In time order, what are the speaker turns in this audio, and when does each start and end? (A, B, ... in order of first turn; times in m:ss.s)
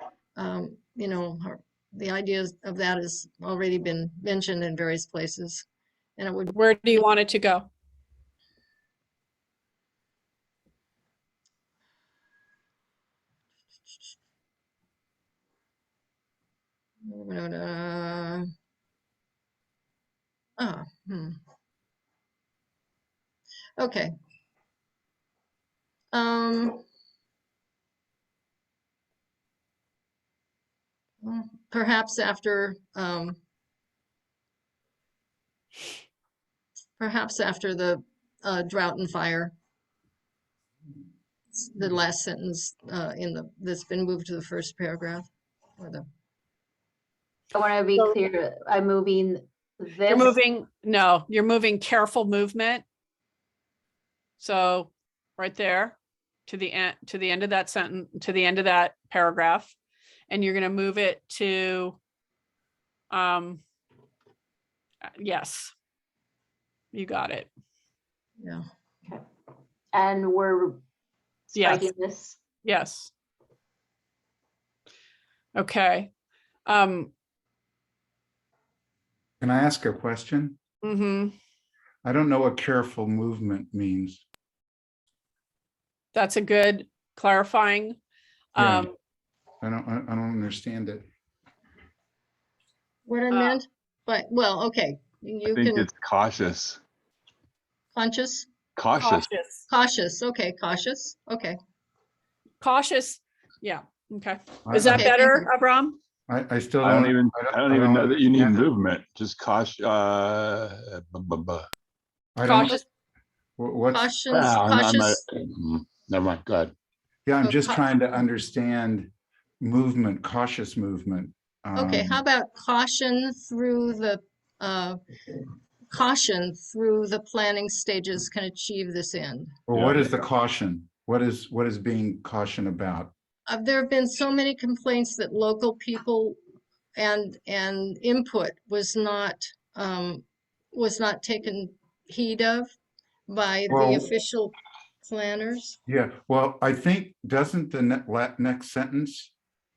0:00.4-0:05.6 A
0:06.2-0:07.0 A
0:06.5-0:07.7 B
0:17.0-0:18.5 A
0:20.6-0:21.4 A
0:23.8-0:24.1 A
0:26.1-0:26.8 A
0:31.2-0:33.4 A
0:37.0-0:39.5 A
0:41.5-0:45.2 A
0:45.8-0:46.0 A
0:47.5-0:50.3 C
0:47.9-0:48.2 B
0:50.1-0:52.8 B
0:54.4-0:56.0 B
0:56.5-0:59.7 B
1:00.3-1:02.0 B
1:03.1-1:03.6 B
1:05.2-1:05.7 B
1:06.9-1:07.5 B
1:08.4-1:08.6 A
1:09.9-1:10.8 C
1:11.5-1:11.9 B
1:11.6-1:12.4 C
1:12.6-1:13.1 B
1:15.5-1:16.1 B
1:16.6-1:17.1 B
1:19.4-1:20.6 D
1:20.8-1:21.3 B
1:22.0-1:24.2 D
1:26.1-1:28.0 B
1:28.5-1:28.9 B
1:28.6-1:28.9 D
1:29.6-1:31.0 D
1:33.0-1:35.9 A
1:33.3-1:33.6 B
1:35.5-1:36.8 E
1:37.9-1:38.5 A
1:38.8-1:39.3 E
1:39.0-1:39.7 B
1:39.7-1:41.6 A
1:42.6-1:46.0 B
1:44.7-1:45.1 D
1:44.8-1:45.5 A
1:46.3-1:48.7 D
1:46.8-1:51.7 E
1:52.3-1:52.8 D
1:52.4-1:52.8 B
1:53.6-1:54.1 D
1:53.9-1:55.2 A
1:54.3-1:56.7 E
1:57.2-2:02.2 D
1:57.4-1:57.9 A
2:01.8-2:05.0 A
2:05.9-2:09.5 A
2:09.7-2:13.1 D
2:09.7-2:10.2 E
2:13.5-2:16.4 A
2:17.0-2:22.7 A
2:23.3-2:25.8 A
2:23.7-2:24.0 D
2:25.9-2:29.3 D